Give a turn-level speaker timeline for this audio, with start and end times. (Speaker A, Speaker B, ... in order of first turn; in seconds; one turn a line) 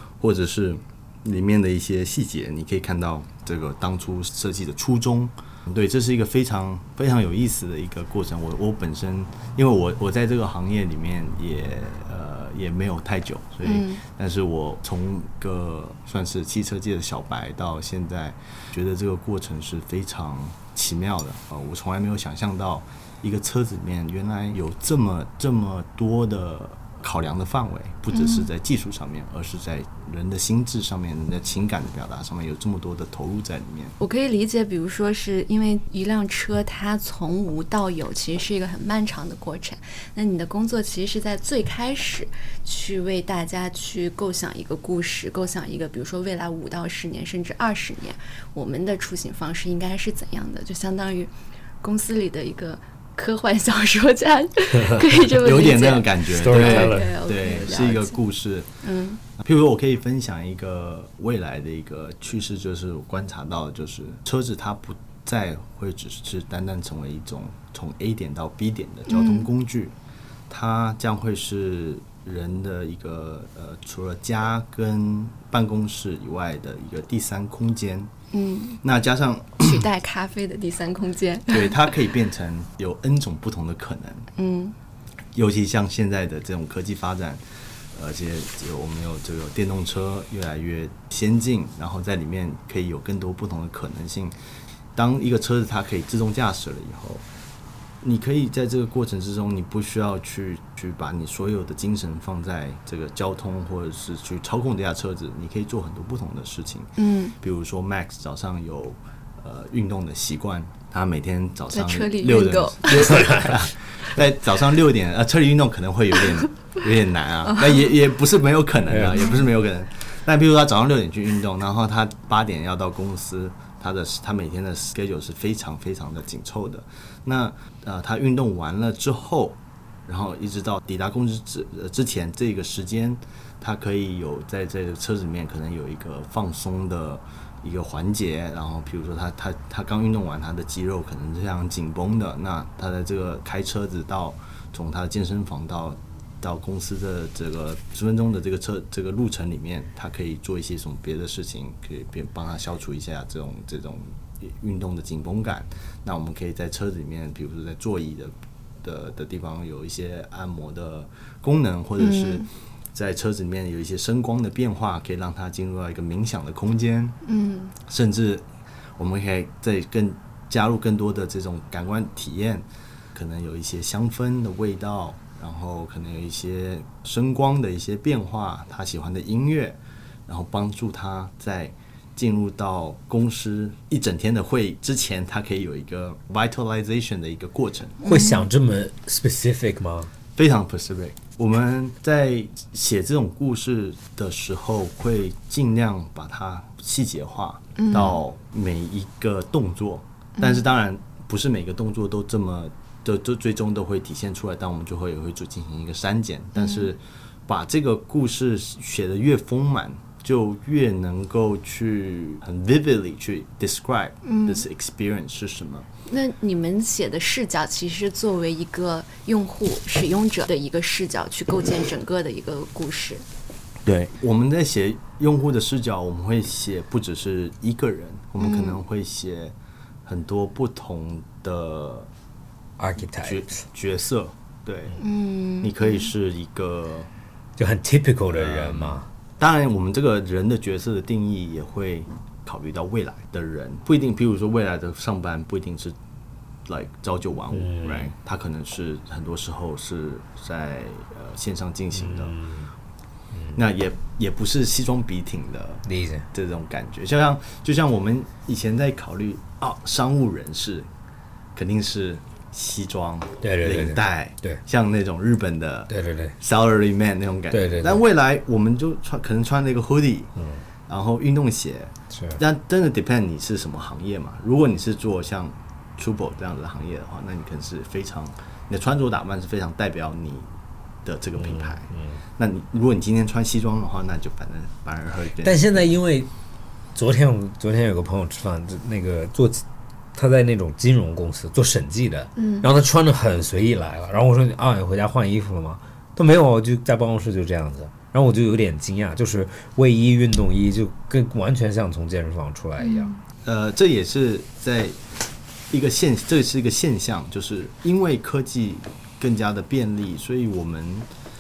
Speaker A: 0.2-33.9
Speaker B: 13.6-14.0
Speaker B: 28.1-28.5
Speaker B: 34.0-58.2
Speaker A: 55.2-58.7
Speaker C: 56.3-57.1
Speaker B: 58.8-59.2
Speaker A: 59.4-69.9
Speaker B: 69.1-69.5
Speaker A: 70.5-78.1
Speaker B: 78.3-78.8
Speaker A: 78.8-79.9
Speaker B: 79.6-82.0
Speaker A: 81.5-84.3
Speaker B: 84.4-84.8
Speaker A: 85.3-87.4
Speaker A: 87.9-94.3
Speaker A: 95.0-97.2
Speaker A: 98.0-158.3
Speaker B: 107.0-107.3
Speaker B: 111.7-113.5
Speaker C: 113.1-113.5
Speaker C: 118.9-119.3
Speaker A: 158.8-167.2
Speaker B: 162.0-162.5
Speaker B: 167.2-167.8
Speaker A: 167.8-168.5
Speaker A: 169.0-188.0
Speaker B: 188.0-188.5
Speaker C: 188.0-190.1
Speaker A: 190.3-215.9
Speaker B: 197.8-198.1
Speaker B: 200.4-200.6
Speaker B: 206.6-206.9
Speaker B: 214.2-214.6
Speaker B: 216.1-223.2
Speaker A: 223.9-232.1
Speaker B: 228.4-228.8
Speaker C: 232.8-233.4
Speaker A: 233.2-235.0
Speaker B: 235.0-236.1
Speaker A: 235.6-237.1
Speaker C: 237.6-239.1
Speaker A: 238.3-246.0
Speaker A: 246.7-252.4
Speaker C: 247.5-248.1
Speaker C: 251.9-252.7
Speaker A: 253.6-260.9
Speaker C: 255.9-256.3
Speaker A: 261.6-270.3
Speaker C: 263.4-264.6
Speaker C: 265.9-266.3
Speaker C: 267.5-268.0
Speaker A: 270.9-280.5
Speaker C: 272.1-272.4
Speaker A: 281.1-285.9
Speaker C: 281.4-282.2
Speaker C: 285.4-286.3
Speaker C: 286.9-289.6
Speaker C: 290.1-303.1
Speaker B: 292.4-292.7
Speaker B: 302.8-303.2
Speaker A: 303.4-305.0
Speaker A: 305.7-311.1